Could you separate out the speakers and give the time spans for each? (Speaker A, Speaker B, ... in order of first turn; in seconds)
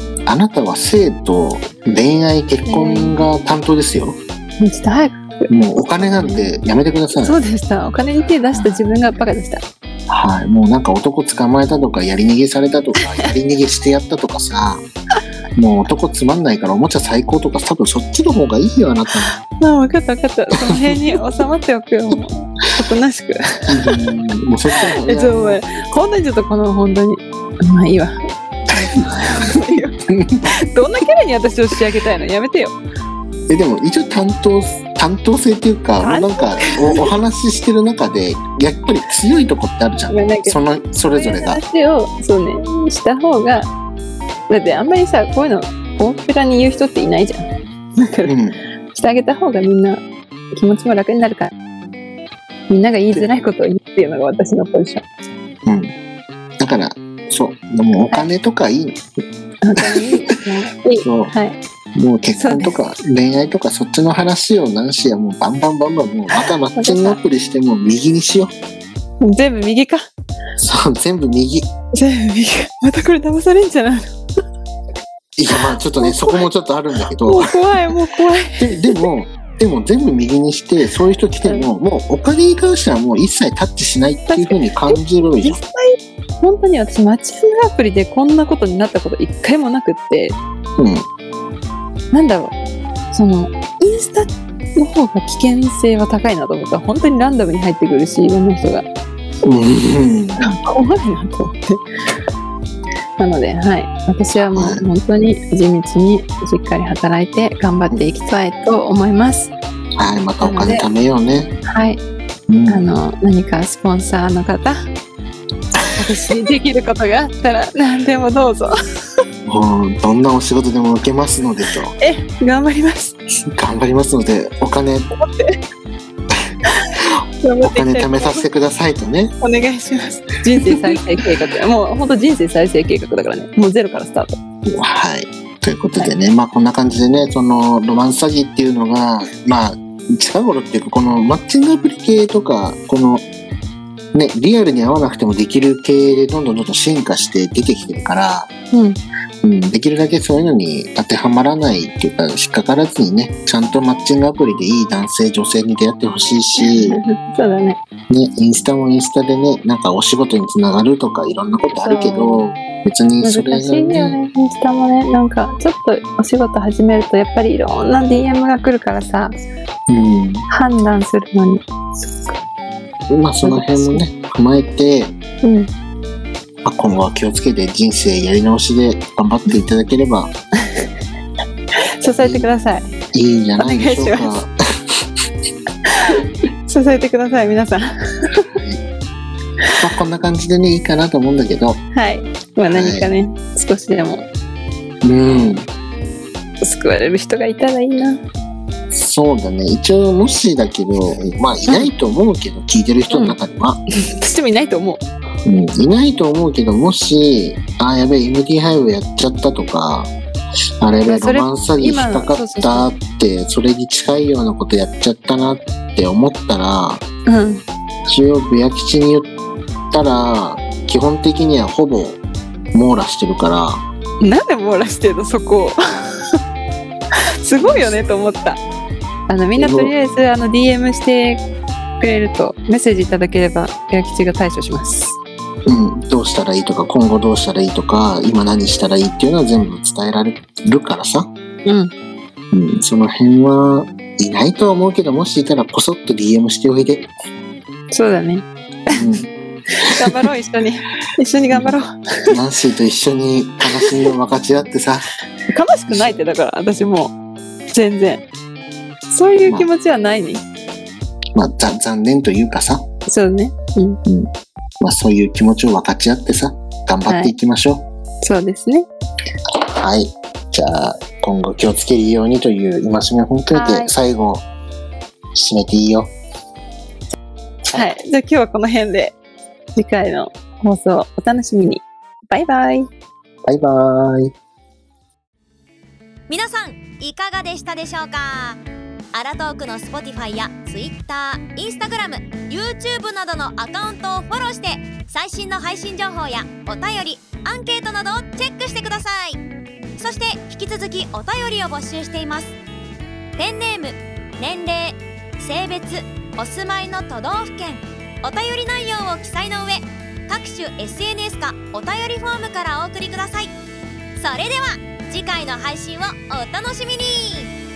Speaker A: 0.3-4.2, 5.5-7.4, 8.5-8.8, 10.1-14.8, 15.6-19.3, 23.7-25.6, 30.1-30.4, 33.5-41.6, 48.3-48.6, 55.7-55.9, 56.6-59.0, 59.8-60.3, 61.0-61.3, 62.0-68.5, 70.6-71.7, 75.4-77.5, 78.6-85.6, 90.8-91.1, 99.5-100.4, 104.4-104.8, 110.0-111.5, 112.5-112.9, 119.5-121.9, 123.5-125.1, 127.6-129.3, 134.7-143.2, 144.1-148.5, 149.4-157.0, 158.1-164.2, 169.9-170.4, 173.1-175.2, 176.6-180.3, 182.2-182.5, 183.1-184.5, 188.6-188.8, 189.8-191.8, 192.7-193.1, 195.0-195.7, 198.9-203.8, 205.4-210.1, 210.8-217.0, 218.1-219.3, 219.9-222.2, 222.7-223.8, 227.6-228.0, 229.6-229.9, 235.7-241.3, 242.5-247.1, 248.9-249.3, 252.3-255.1, 255.9-256.2, 261.4-262.9, 264.1-267.9, 269.7-274.4, 275.3-276.1, 277.7-277.9, 283.5-284.3
Speaker B: 2.7-3.2, 4.6-6.5, 7.2-9.6, 19.4-24.1, 24.9-28.2, 28.7-30.0, 30.6-32.8, 36.0-37.1, 40.1-40.6, 41.1-43.7, 44.5-47.5, 48.0-48.4, 48.9-51.5, 52.7-55.0, 59.6-61.6, 62.4-62.8, 66.4-67.2, 69.2-70.0, 71.9-74.1, 75.7-76.5, 77.3-79.1, 84.3-90.4, 92.1-92.6, 93.1-98.9, 100.4-101.8, 103.2-109.5, 110.4-110.9, 111.7-112.0, 112.7-114.9, 116.0-118.7, 122.0-123.2, 125.2-125.6, 127.4-128.5, 129.4-134.4, 148.7-149.0, 156.6-157.8, 161.7-162.5, 163.2-169.4, 170.5-172.4, 173.4-174.0, 175.4-175.7, 182.0-182.9, 183.6-184.4, 186.0-188.5, 191.9-194.3, 195.2-195.6, 196.6-198.2, 203.1-203.4, 204.1-205.1, 211.1-212.9, 217.3-217.6, 224.2-225.8, 227.4-228.6, 229.3-231.4, 232.0-235.2, 241.7-241.9, 247.9-249.0, 249.8-251.9, 255.5-257.1, 257.7-258.2, 259.1-260.4, 263.1-264.0, 267.1-267.4, 268.2-268.9, 273.5-273.9, 277.7-279.2, 279.8-282.9
Speaker C: 286.3-288.6, 289.1-299.4, 300.0-302.6, 303.4-313.5, 314.2-317.5